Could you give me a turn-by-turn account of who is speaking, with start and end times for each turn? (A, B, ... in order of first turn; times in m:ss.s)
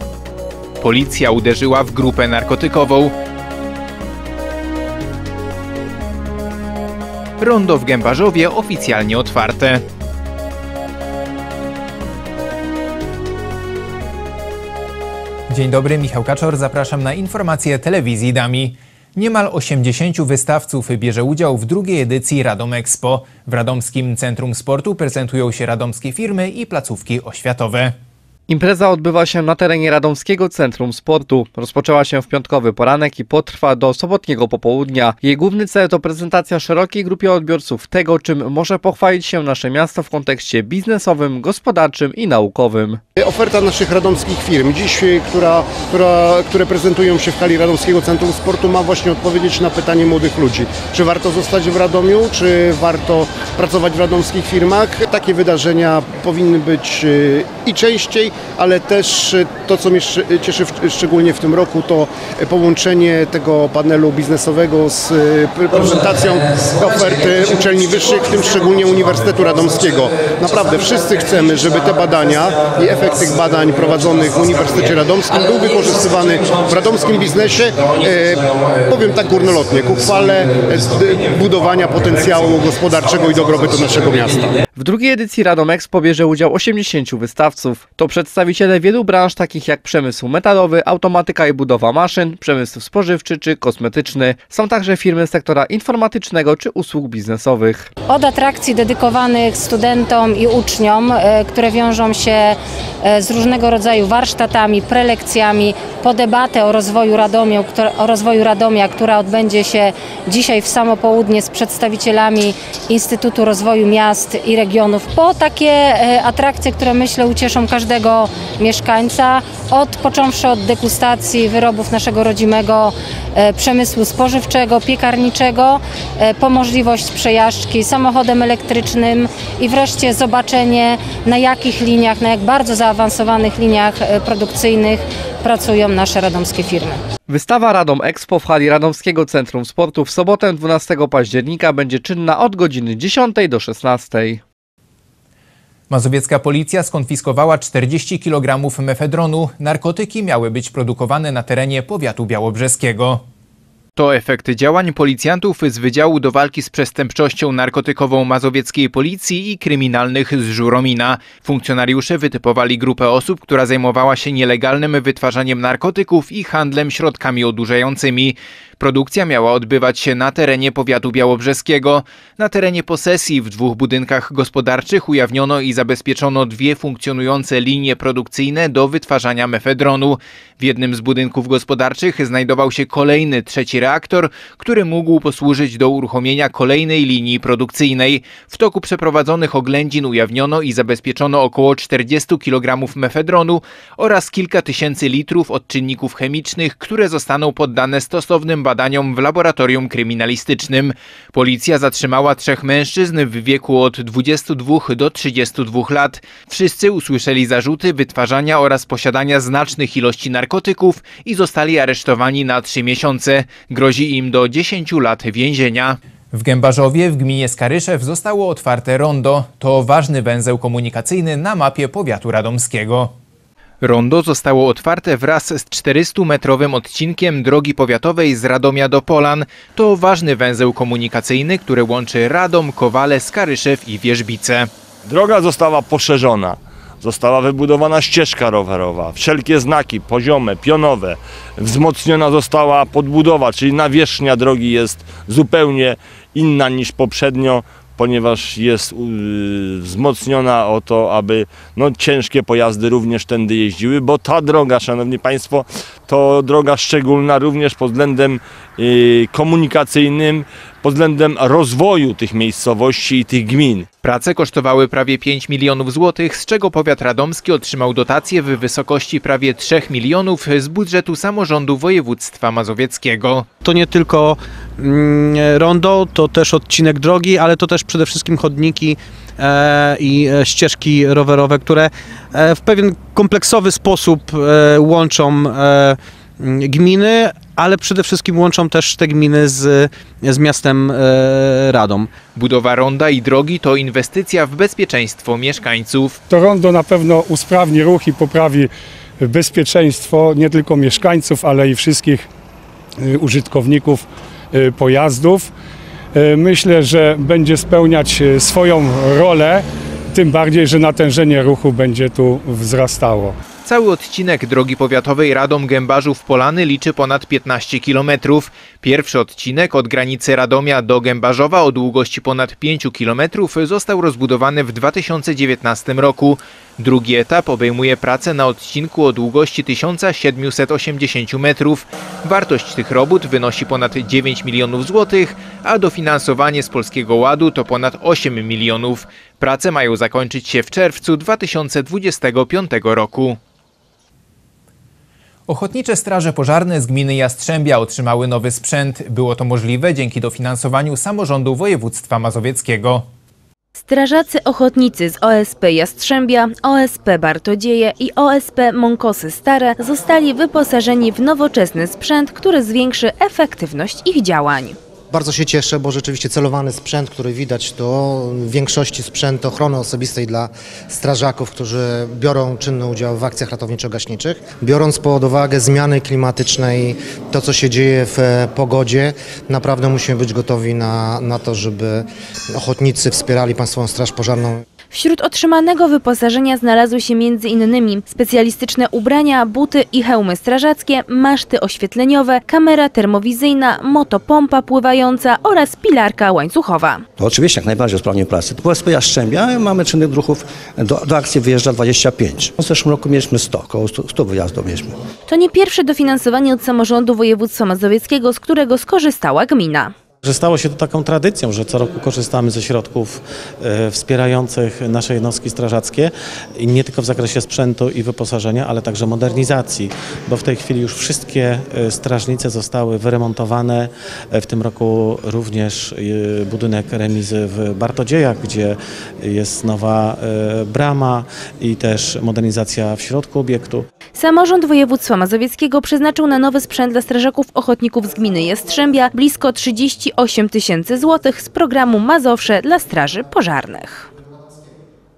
0:00.8-0:03.1 A
0:07.4-0:09.8 A
0:15.5-0:27.9 A
0:28.5-0:43.0 B
0:43.2-1:24.5 C
1:24.8-1:37.9 B
1:38.1-2:17.0 D
2:17.3-2:24.4 B
2:25.9-2:33.2 A
2:34.0-3:43.1 A
3:43.8-3:54.7 A
3:55.0-4:23.9 E
4:24.0-4:33.4 A
4:33.6-4:52.1 F
4:52.4-4:56.2 A
4:56.3-4:58.7 G
4:59.2-5:02.3 G
5:03.0-5:05.5 G
5:06.1-5:09.6 G
5:10.1-5:13.4 G
5:13.6-5:43.4 A
5:45.5-5:53.0 A
5:53.8-6:04.8 H
6:05.1-6:24.6 I
6:24.9-6:37.0 H
6:37.2-6:45.0 J
6:45.3-6:49.9 H
6:50.2-7:13.8 K
7:14.1-7:24.1 H